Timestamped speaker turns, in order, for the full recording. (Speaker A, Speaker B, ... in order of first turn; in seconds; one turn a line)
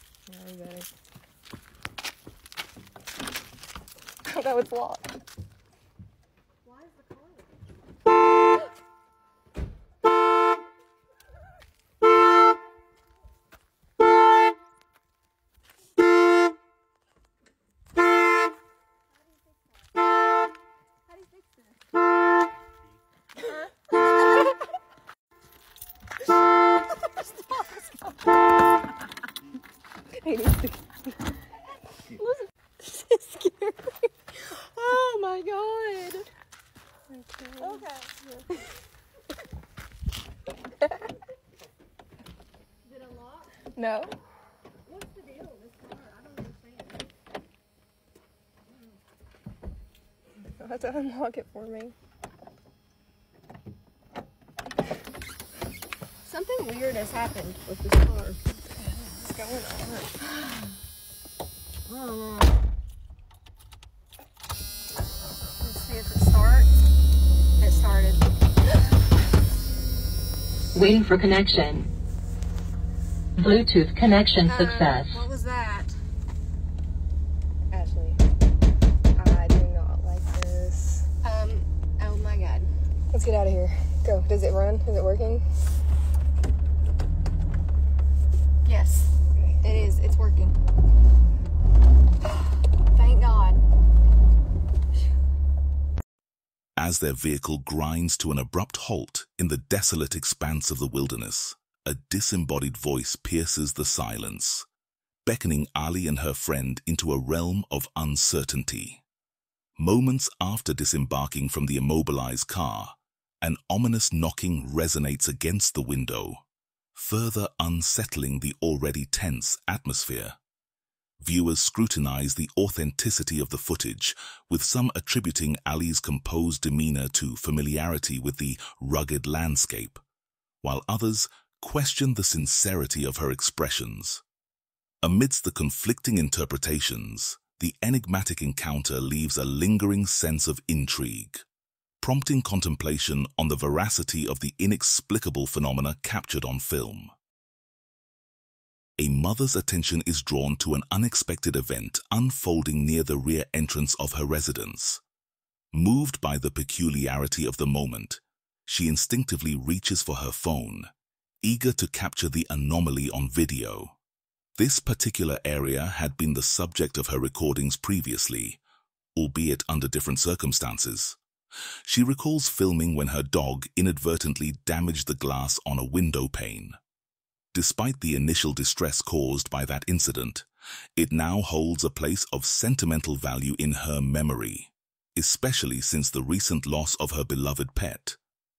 Speaker A: 4.3-5.1
Speaker A: 32.9-33.9
Speaker B: 34.4-36.3
Speaker A: 43.7-44.1
Speaker A: 50.6-51.9
Speaker B: 56.2-58.4
Speaker A: 58.8-60.2
Speaker B: 61.9-62.5
Speaker B: 65.6-66.7
Speaker B: 67.6-68.2
Speaker C: 70.7-71.9
Speaker C: 73.4-75.2
Speaker B: 74.4-76.0
Speaker A: 77.7-78.2
Speaker A: 79.2-81.0
Speaker B: 81.2-82.7
Speaker A: 83.1-85.5
Speaker B: 88.6-90.5
Speaker B: 92.9-93.6
Speaker D: 96.8-104.7
Speaker D: 105.2-109.0
Speaker D: 109.8-116.4
Speaker D: 116.9-120.4
Speaker D: 121.2-130.0
Speaker D: 130.6-134.2
Speaker D: 135.0-141.4
Speaker D: 142.0-147.1
Speaker D: 149.0-155.0
Speaker D: 155.7-160.9
Speaker D: 161.4-164.0
Speaker D: 164.6-168.6
Speaker D: 169.1-171.2
Speaker D: 171.8-176.8
Speaker D: 177.5-188.2